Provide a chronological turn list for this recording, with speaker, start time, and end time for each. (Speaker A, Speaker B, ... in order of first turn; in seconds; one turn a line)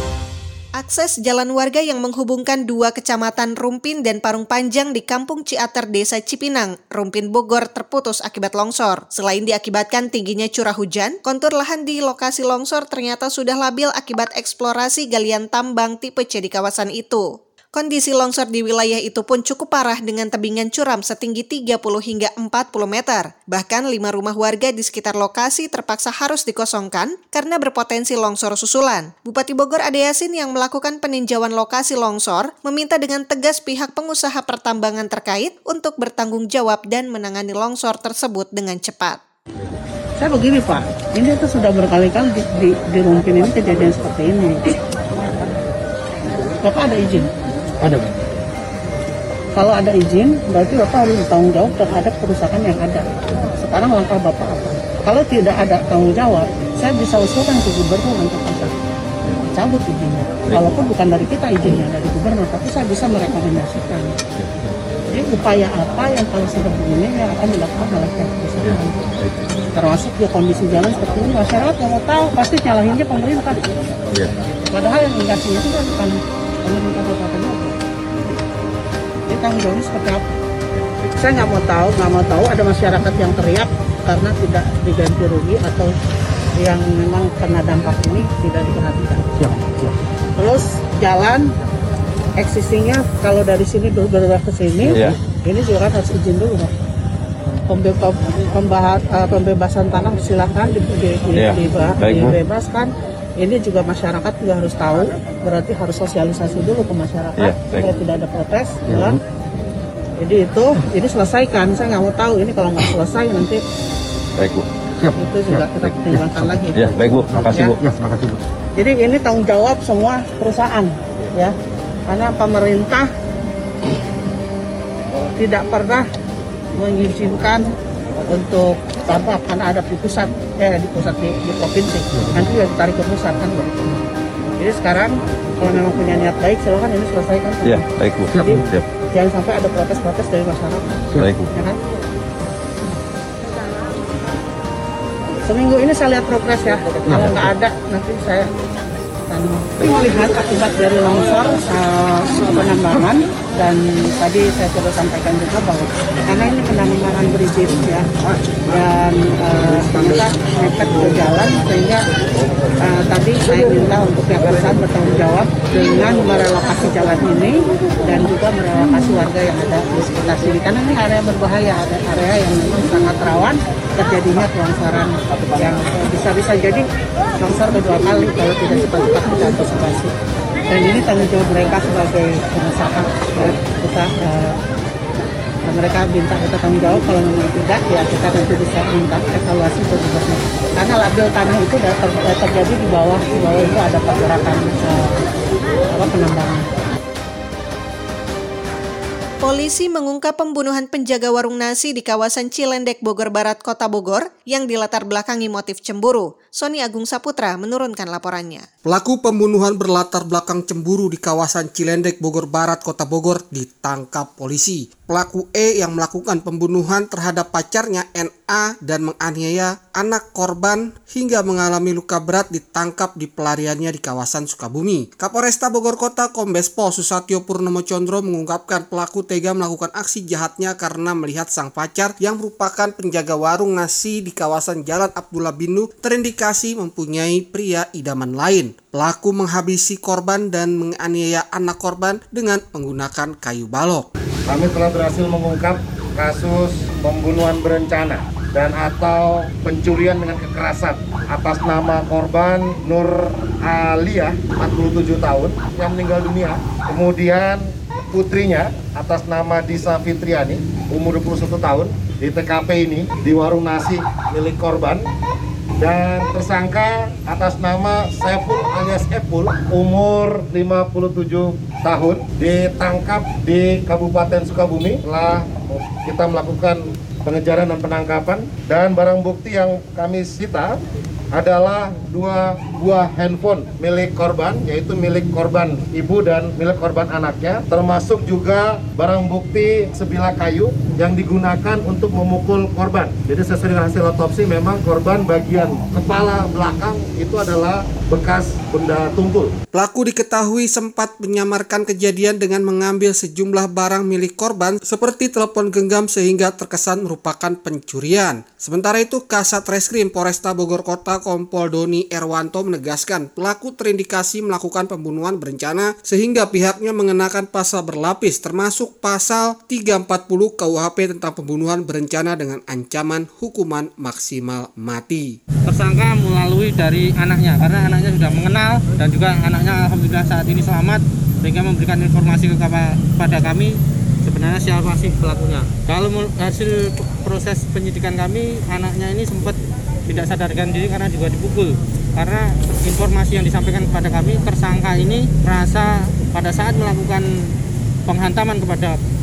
Speaker A: 0.8-39.2
Speaker B: 40.2-44.7
Speaker B: 46.6-47.3
Speaker B: 49.5-58.7
Speaker B: 59.4-64.1
Speaker B: 65.1-69.0
Speaker B: 69.7-73.7
Speaker B: 74.7-77.7
Speaker B: 79.3-80.2
Speaker B: 81.2-85.9
Speaker B: 86.6-89.3
Speaker B: 90.4-91.5
Speaker B: 92.4-96.7
Speaker B: 97.7-109.2
Speaker C: 101.4-102.3
Speaker C: 107.4-107.9
Speaker B: 110.2-113.6
Speaker C: 114.4-114.7
Speaker B: 115.1-117.8
Speaker C: 116.8-117.7
Speaker B: 118.8-121.5
Speaker B: 122.1-123.1
Speaker B: 125.4-126.1
Speaker B: 126.8-127.7
Speaker B: 128.3-134.0
Speaker B: 134.6-140.9
Speaker C: 137.7-138.8
Speaker C: 141.2-141.5
Speaker B: 141.5-141.8
Speaker B: 145.5-148.5
Speaker B: 149.3-158.1
Speaker B: 158.7-162.0
Speaker B: 162.8-176.8
Speaker B: 177.4-180.1
Speaker B: 180.7-184.6
Speaker B: 185.7-195.1
Speaker B: 195.9-196.6
Speaker A: 199.4-208.7
Speaker D: 208.8-244.1
Speaker E: 244.5-265.0
Speaker E: 265.8-280.7
Speaker E: 281.3-299.5
Speaker D: 299.7-325.3
Speaker F: 325.7-347.2
Speaker F: 348.1-349.0